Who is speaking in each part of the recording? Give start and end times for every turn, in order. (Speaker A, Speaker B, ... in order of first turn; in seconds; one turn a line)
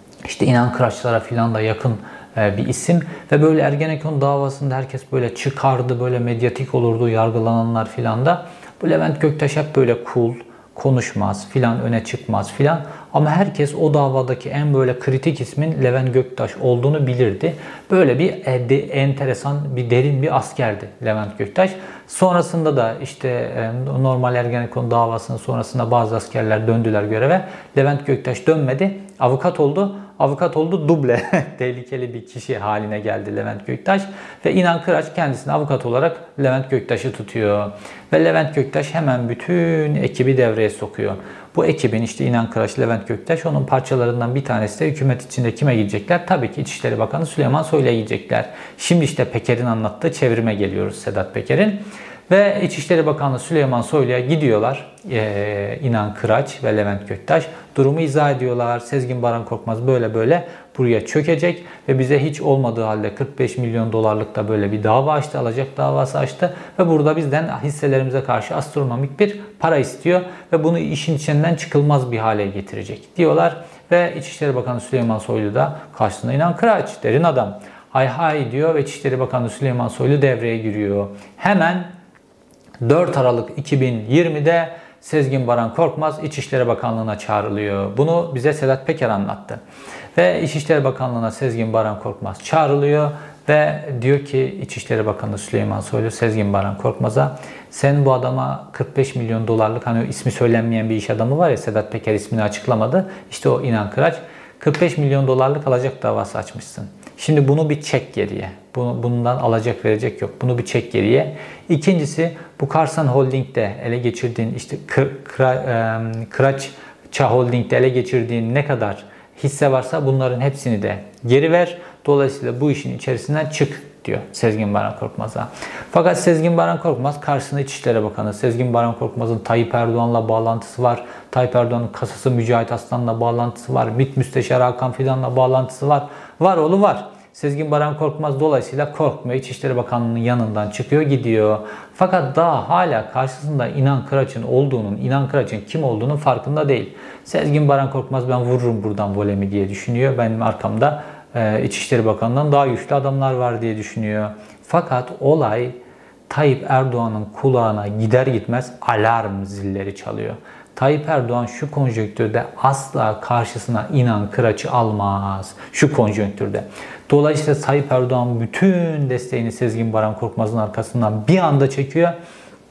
Speaker A: 0.2-81.9
Speaker A: 82.8-89.6
Speaker A: 90.1-155.8
Speaker A: 156.3-172.2